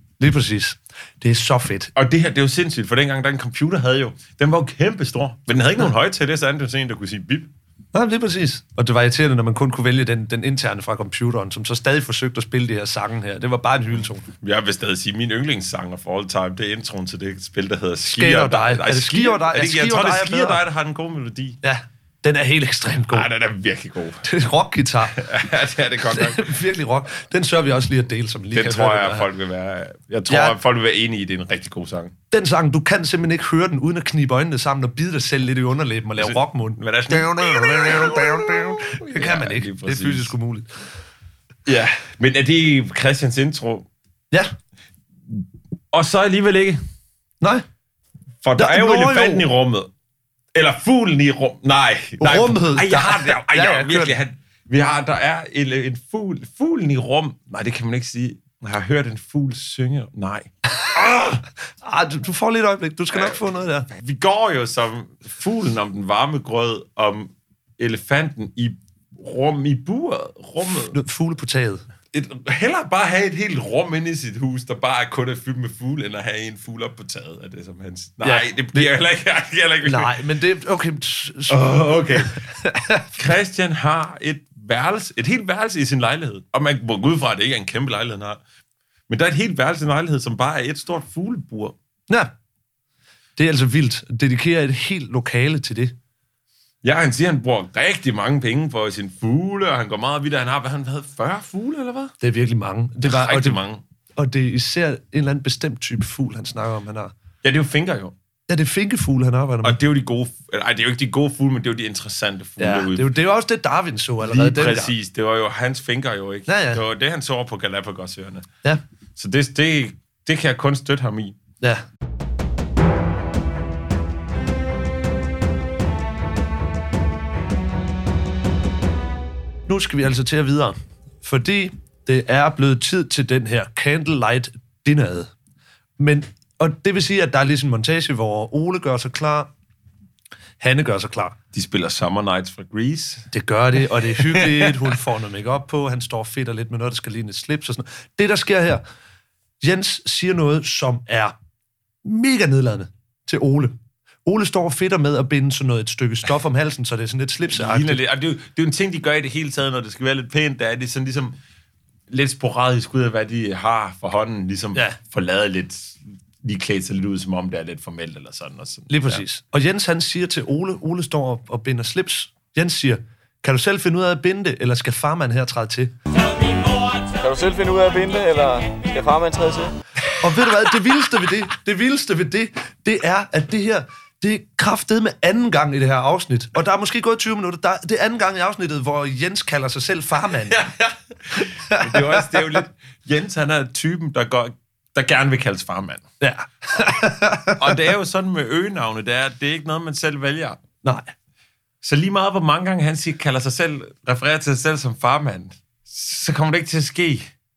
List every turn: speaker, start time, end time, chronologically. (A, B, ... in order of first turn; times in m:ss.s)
0:00.2-0:01.9 A
0:01.9-0:07.5 B
0:07.9-0:14.3 A
0:14.4-0:21.6 B
0:18.0-0:20.6 A
0:21.6-0:23.3 A
0:23.1-0:24.2 B
0:24.2-0:25.2 A
0:25.1-0:26.5 B
0:26.1-0:29.3 A
0:28.5-0:32.1 B
0:30.3-0:30.6 A
0:32.3-0:40.7 A
0:36.2-0:40.3 B
0:41.6-0:43.9 B
0:45.3-0:46.8 B
0:48.4-0:49.9 B
0:48.6-0:49.4 A
0:50.5-1:01.4 B
0:52.2-0:54.1 A
1:01.8-1:03.9 A
1:03.1-1:11.0 B
1:10.9-1:11.8 A
1:12.1-1:20.2 B
1:18.2-1:18.9 A
1:19.8-1:23.0 A
1:21.5-1:22.4 B
1:23.1-1:28.4 B
1:29.1-1:31.8 B
1:33.4-1:35.9 A
1:36.8-1:42.1 B
1:42.2-1:43.6 A
1:43.0-1:43.8 B
1:44.2-1:47.1 A
1:47.4-1:48.1 B
1:48.5-1:49.8 A
1:49.6-1:53.1 B
1:52.6-1:54.9 A
1:54.2-1:58.5 B
1:56.5-1:56.8 A
1:59.2-2:01.4 B
2:09.7-2:15.3 A
2:16.0-2:19.5 A
2:20.6-2:21.4 A
2:21.5-2:23.3 B
2:23.3-2:28.8 A
2:24.0-2:24.9 B
2:29.6-2:31.3 A
2:32.0-2:38.0 A
2:37.5-2:41.3 B
2:42.1-2:49.2 B
2:48.9-2:55.9 A
2:57.2-2:59.7 C
3:00.2-3:10.6 A
3:10.3-3:16.0 B
3:11.7-3:12.6 A
3:16.2-3:17.7 A
3:17.6-3:20.6 B
3:20.8-3:21.1 A
3:21.8-3:27.3 B